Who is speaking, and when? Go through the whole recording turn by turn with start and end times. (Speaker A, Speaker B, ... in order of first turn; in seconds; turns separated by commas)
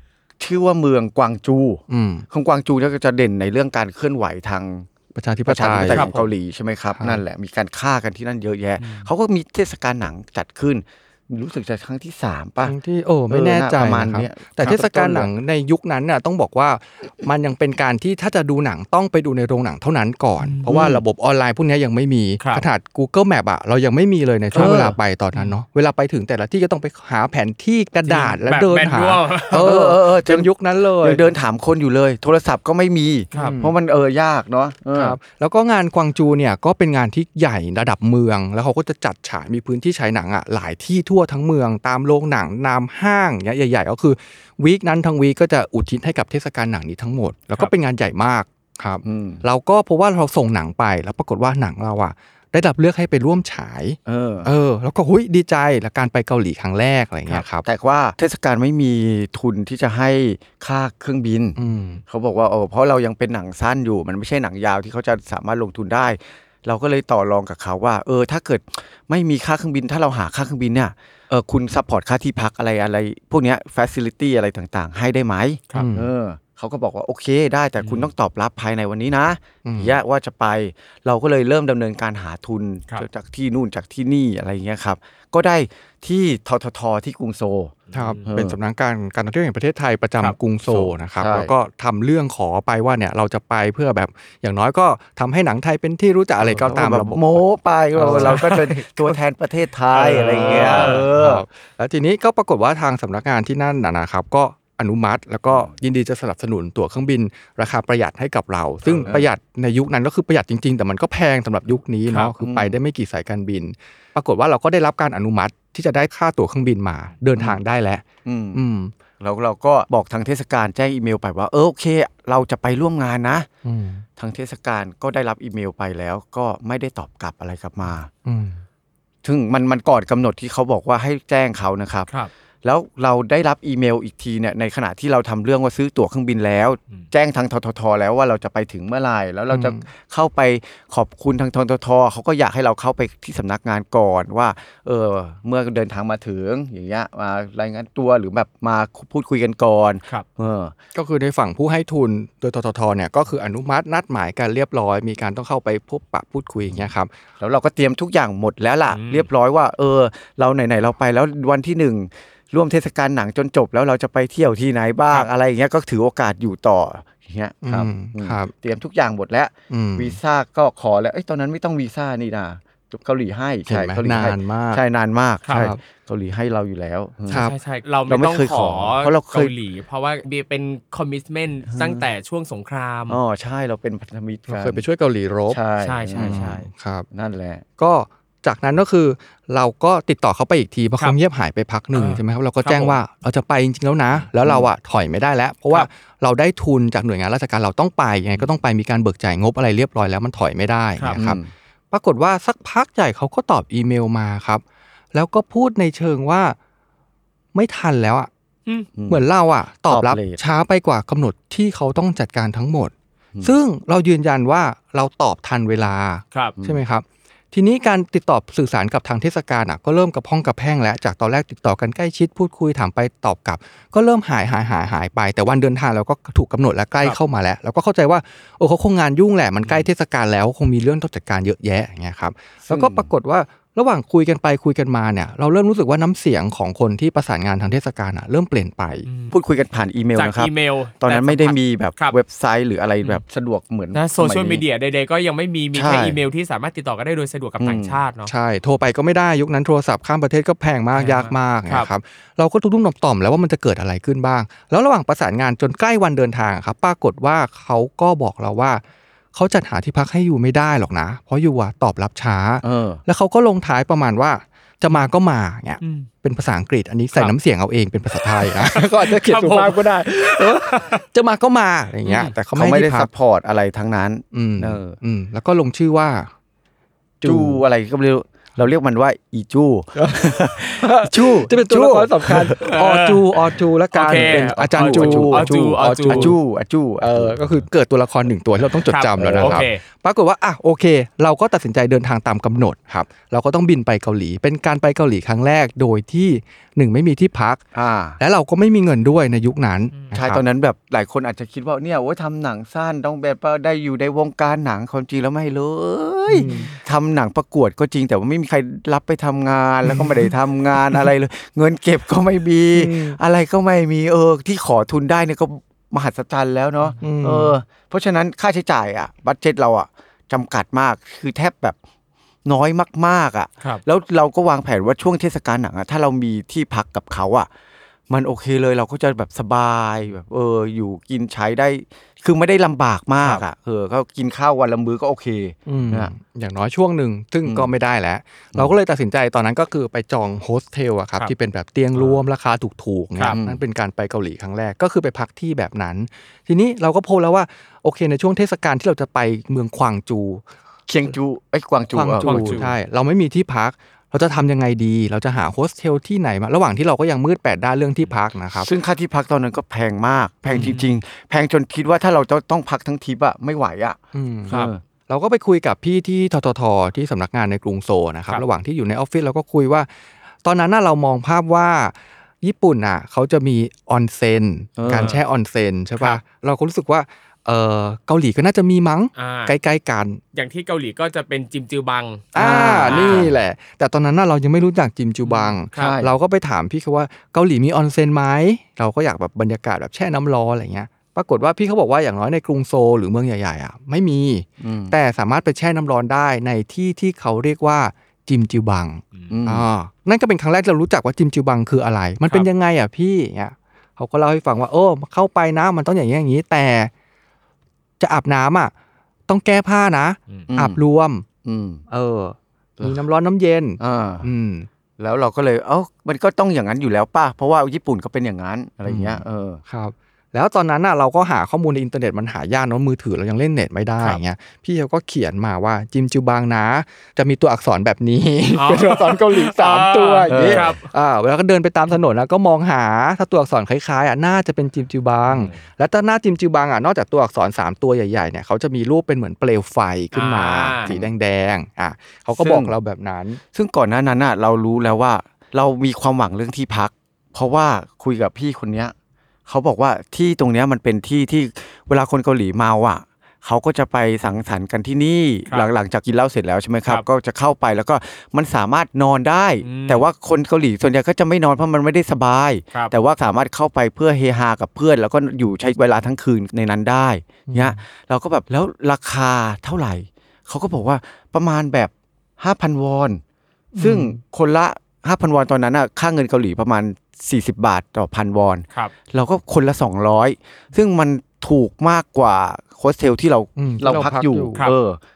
Speaker A: 0.4-4.9, Speaker B: 1.9-2.2, Speaker B: 5.1-6.2, Speaker A: 5.5-12.8, Speaker B: 7.0-7.2, Speaker C: 8.8-9.1, Speaker B: 12.6-31.2, Speaker A: 13.3-15.3, Speaker C: 20.4-20.7, Speaker A: 20.7-21.0, Speaker C: 22.4-22.6, Speaker C: 24.5-25.5, Speaker A: 24.6-24.9, Speaker C: 28.1-29.7, Speaker A: 29.5-35.2, Speaker C: 33.3-33.6, Speaker B: 33.3-33.7, Speaker B: 34.9-57.6, Speaker A: 49.0-49.4, Speaker A: 54.1-54.5, Speaker A: 57.6-61.6, Speaker B: 61.6-62.0, Speaker A: 62.1-88.6, Speaker B: 75.7-76.1, Speaker C: 77.8-78.1, Speaker B: 79.6-80.0, Speaker C: 87.9-88.2, Speaker B: 87.9-97.4, Speaker A: 90.7-91.5, Speaker A: 96.4-101.4, Speaker B: 98.0-98.6, Speaker C: 98.0-98.8, Speaker C: 99.9-101.1, Speaker B: 100.4-118.9, Speaker C: 108.8-109.1, Speaker A: 112.4-112.8, Speaker A: 118.2-118.6, Speaker A: 119.2-123.5, Speaker B: 123.6-124.0, Speaker A: 124.2-128.1, Speaker B: 128.2-128.6, Speaker A: 129.2-132.1, Speaker A: 132.6-150.7, Speaker B: 139.5-139.8, Speaker B: 150.9-157.1, Speaker A: 157.4-177.4, Speaker C: 158.9-159.3, Speaker B: 167.6-168.5, Speaker B: 169.7-170.2, Speaker B: 173.7-174.8, Speaker B: 177.3-177.5, Speaker C: 177.3-183.2, Speaker A: 178.1-179.5, Speaker A: 181.7-182.1, Speaker A: 183.1-184.8, Speaker B: 184.5-185.6, Speaker A: 185.5-187.7, Speaker C: 185.8-186.6, Speaker B: 186.2-187.1, Speaker B: 187.8-201.4, Speaker C: 191.9-193.0, Speaker A: 194.4-194.7, Speaker A: 201.2-201.5, Speaker B: 201.9-204.6, Speaker B: 205.1-206.6, Speaker B: 207.5-208.3, Speaker A: 208.9-209.2, Speaker B: 209.1-239.1, Speaker A: 209.9-210.4, Speaker A: 232.7-233.1, Speaker C: 239.1-239.3, Speaker A: 239.3-244.6, Speaker C: 240.2-242.2, Speaker C: 243.9-248.3, Speaker A: 245.7-246.2, Speaker A: 247.6-248.0, Speaker B: 248.2-258.8, Speaker C: 250.9-251.9, Speaker B: 259.3-273.1, Speaker A: 262.6-263.0, Speaker C: 265.8-266.1, Speaker C: 268.4-271.0, Speaker C: 272.1-272.3, Speaker A: 272.6-275.0, Speaker B: 274.3-276.3, Speaker B: 277.2-277.6, Speaker A: 277.2-282.6, Speaker B: 280.0-286.4, Speaker C: 282.6-283.3, Speaker C: 283.9-286.3, Speaker A: 284.2-287.4, Speaker B: 287.0-297.6, Speaker C: 288.8-289.8, Speaker A: 289.2-289.7, Speaker A: 297.7-298.2, Speaker B: 298.2-300.4, Speaker A: 300.1-321.8, Speaker B: 306.3-306.7, Speaker B: 309.9-310.3, Speaker B: 312.7-313.2, Speaker B: 317.0-317.5, Speaker A: 322.4-327.5, Speaker A: 328.1-336.1, Speaker B: 335.7-350.4, Speaker A: 337.4-337.7, Speaker A: 343.3-343.6, Speaker A: 350.9-352.6, Speaker B: 351.9-358.7, Speaker C: 352.2-352.7, Speaker A: 358.5-364.8, Speaker B: 360.4-360.8, Speaker C: 360.5-360.8, Speaker B: 364.1-369.9, Speaker B: 370.4-380.2, Speaker A: 374.8-375.1, Speaker C: 374.9-375.2, Speaker C: 379.2-379.5, Speaker C: 380.3-383.3, Speaker B: 382.3-406.9, Speaker A: 382.4-383.3, Speaker C: 385.2-385.9, Speaker A: 385.7-386.1, Speaker A: 394.6-394.9, Speaker A: 399.3-399.6, Speaker B: 408.0-408.7, Speaker B: 409.3-411.2, Speaker A: 410.5-410.8, Speaker A: 411.4-411.8, Speaker B: 411.9-414.7, Speaker A: 413.8-414.3, Speaker A: 415.0-419.6, Speaker B: 418.9-443.4, Speaker C: 428.6-430.9, Speaker A: 430.3-430.7, Speaker C: 435.3-435.6, Speaker C: 440.1-440.9, Speaker A: 440.8-441.1, Speaker A: 442.3-442.7, Speaker A: 443.5-448.9, Speaker A: 449.4-473.2, Speaker C: 459.6-460.1, Speaker B: 467.5-467.8, Speaker B: 473.8-474.2, Speaker A: 473.8-485.0, Speaker B: 483.6-484.7